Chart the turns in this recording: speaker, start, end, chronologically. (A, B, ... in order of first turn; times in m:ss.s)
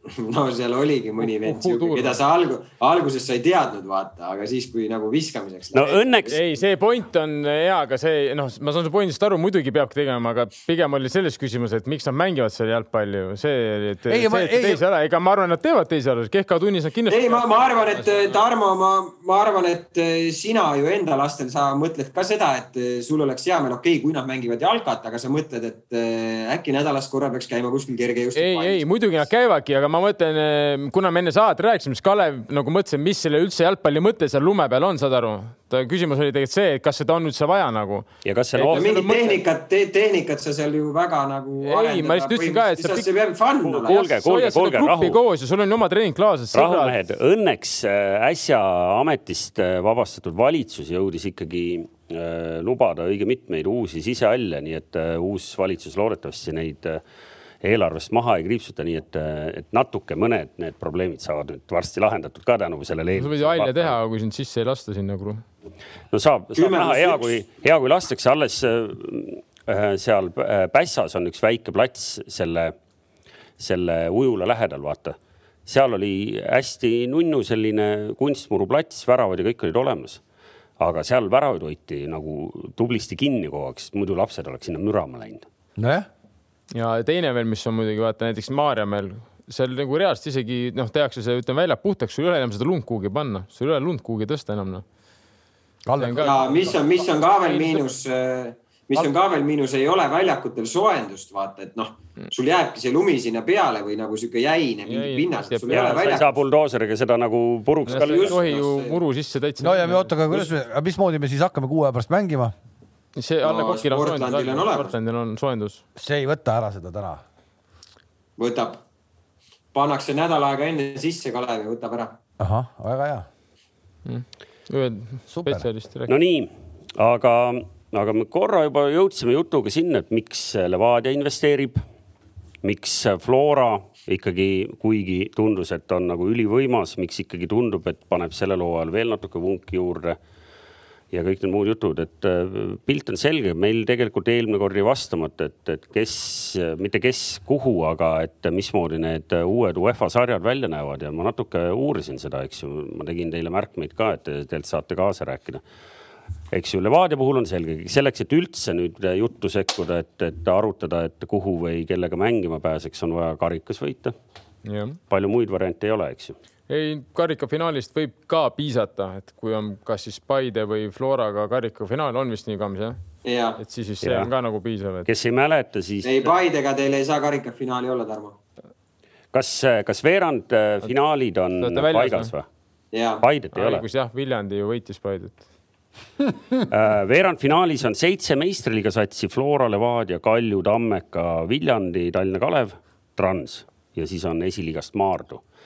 0:00.1-0:06.4 A
0:01.2-0:02.2 B
0:05.7-0:06.3 C
0:06.3-0:18.4 B
0:14.1-0:14.8 D
0:17.1-0:28.9 A
0:28.4-0:39.4 B
0:38.2-0:39.2 C
0:38.7-0:44.0 A
0:41.6-0:43.1 B
0:43.6-0:45.2 C
0:43.9-0:46.9 B
0:46.5-0:57.0 C
0:57.6-1:03.9 C
1:03.2-1:05.4 B
1:06.1-1:12.7 C
1:06.5-1:07.4 A
1:13.6-1:15.1 C
1:15.6-1:20.2 C
1:20.8-1:25.4 C
1:25.8-1:26.1 D
1:26.7-1:34.8 B
1:35.8-1:36.8 D
1:36.0-1:36.7 B
1:36.2-1:46.3 A
1:37.5-1:37.8 B
1:44.8-1:46.0 B
1:45.7-1:48.4 C
1:47.9-1:49.0 A
1:47.9-1:50.5 B
1:49.6-1:52.5 D
1:53.2-1:55.8 B
1:53.4-1:54.9 A
1:56.0-1:57.2 D
1:58.4-1:58.8 A
1:59.7-2:02.1 A
2:02.4-2:03.2 D
2:04.0-2:06.1 B
2:05.3-2:05.6 D
2:06.1-2:11.8 C
2:12.6-2:20.2 C
2:21.1-2:35.6 C
2:36.5-2:44.1 C
2:44.6-2:45.0 B
2:45.1-2:46.3 C
2:46.7-2:53.0 B
2:53.2-2:53.6 A
2:53.6-2:55.1 B
2:54.0-2:54.3 C
2:55.0-2:56.3 C
2:56.0-2:58.4 A
2:59.3-3:02.4 C
3:01.6-3:02.3 B
3:02.9-3:03.2 A
3:03.2-3:03.8 C
3:03.5-3:05.4 B
3:06.7-3:15.4 C